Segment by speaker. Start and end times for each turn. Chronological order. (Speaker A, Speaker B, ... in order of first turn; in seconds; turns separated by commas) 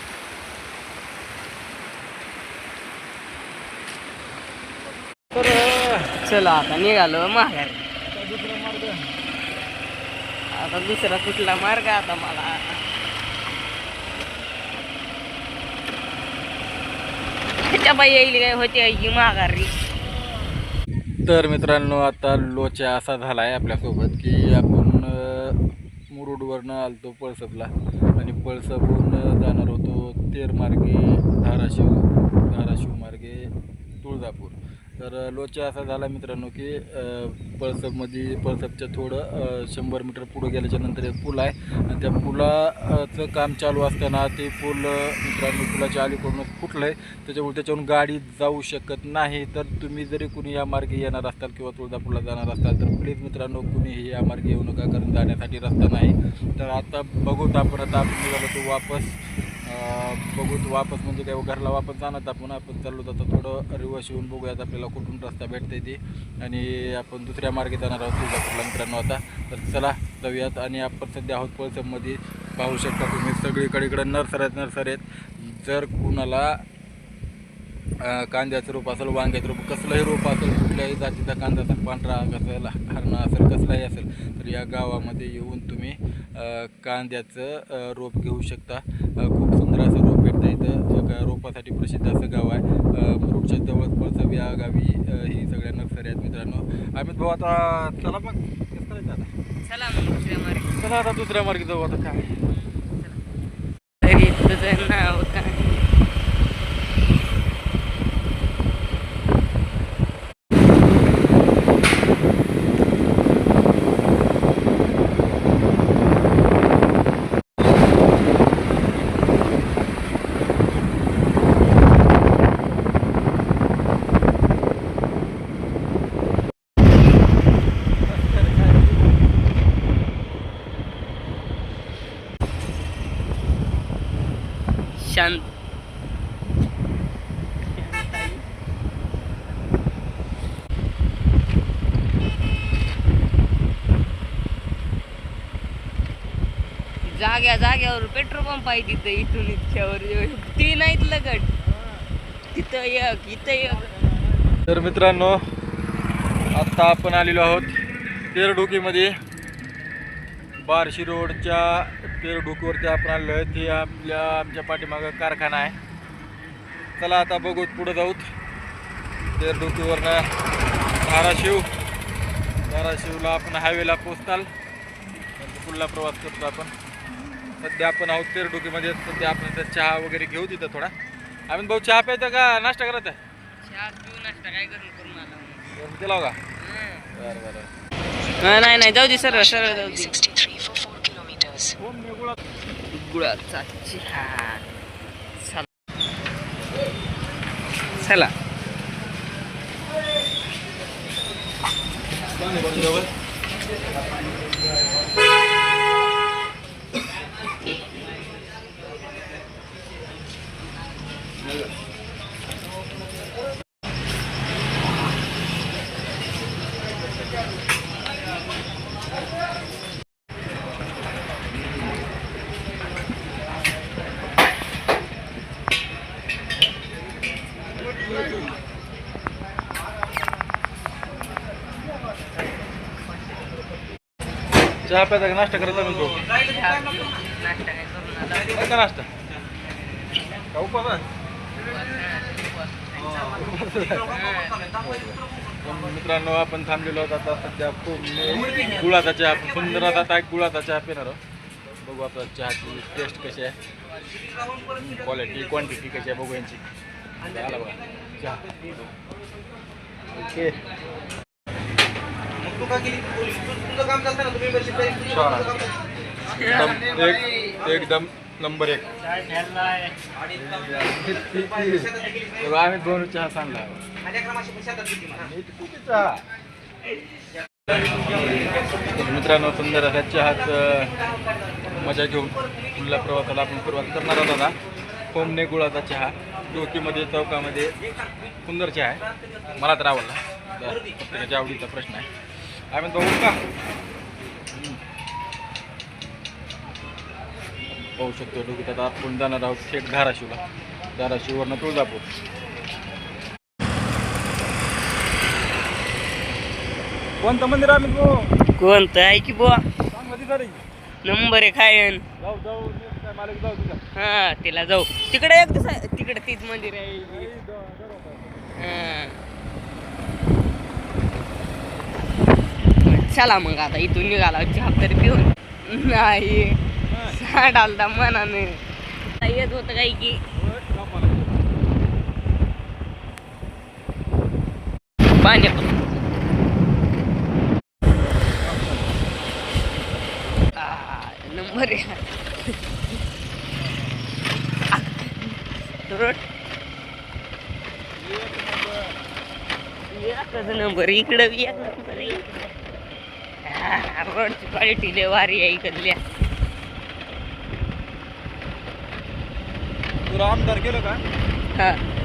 Speaker A: 5.3-6.1, Speaker B: 6.1-7.8, Speaker A: 8.1-9.0, Speaker B: 10.5-12.8, Speaker B: 17.7-19.7, Speaker A: 21.2-25.6, Speaker A: 26.1-33.5, Speaker A: 34.0-76.6, Speaker A: 78.0-99.3, Speaker B: 99.6-100.7, Speaker A: 100.7-102.3, Speaker B: 102.5-103.2, Speaker B: 104.0-105.7, Speaker A: 128.1-129.1, Speaker B: 135.0-135.5, Speaker B: 137.6-138.4, Speaker B: 147.1-151.5, Speaker A: 151.6-152.1, Speaker B: 152.5-153.8, Speaker A: 153.8-155.4, Speaker A: 156.5-157.8, Speaker A: 158.3-159.1, Speaker A: 160.6-165.8, Speaker A: 167.0-168.3, Speaker A: 169.4-170.2, Speaker A: 171.0-171.7, Speaker A: 172.7-174.5, Speaker A: 175.4-176.7, Speaker A: 177.6-180.9, Speaker A: 181.5-183.2, Speaker B: 183.6-185.7, Speaker A: 185.8-186.4, Speaker B: 186.6-187.1, Speaker A: 187.1-187.7, Speaker B: 188.4-190.2, Speaker C: 189.2-191.7, Speaker A: 191.8-192.4, Speaker B: 192.9-194.6, Speaker B: 195.4-195.7, Speaker B: 198.0-198.3, Speaker A: 202.4-203.1, Speaker A: 234.8-236.2, Speaker B: 236.4-238.5, Speaker A: 238.5-239.1, Speaker A: 240.5-241.0, Speaker B: 241.6-243.4, Speaker A: 243.0-251.2, Speaker B: 244.1-244.6, Speaker A: 251.8-253.5, Speaker A: 254.7-256.6, Speaker A: 257.2-258.9, Speaker A: 260.1-260.6, Speaker A: 264.9-265.6, Speaker B: 266.3-266.8, Speaker A: 266.4-269.0, Speaker A: 270.3-273.8, Speaker A: 275.1-276.2, Speaker A: 277.9-278.2, Speaker A: 278.9-280.9, Speaker A: 281.7-284.5, Speaker A: 285.1-287.7, Speaker A: 288.4-289.0, Speaker A: 289.5-292.1, Speaker A: 292.7-293.4, Speaker A: 294.5-294.8, Speaker A: 297.7-300.4, Speaker A: 300.9-302.1, Speaker A: 307.2-308.3, Speaker B: 308.6-309.6, Speaker A: 309.9-310.6, Speaker B: 311.0-312.0, Speaker A: 312.2-313.8, Speaker B: 313.9-317.3, Speaker A: 317.0-318.5, Speaker B: 318.6-319.2, Speaker B: 322.8-328.6, Speaker A: 326.9-327.2, Speaker B: 329.1-330.2, Speaker A: 330.3-331.5, Speaker B: 335.2-336.0, Speaker A: 338.4-338.9, Speaker B: 340.6-342.5, Speaker A: 343.6-344.1, Speaker B: 344.7-346.2, Speaker A: 348.0-348.8, Speaker B: 349.9-352.2, Speaker A: 351.0-352.8, Speaker B: 353.4-356.0, Speaker A: 360.1-361.0, Speaker B: 361.6-361.8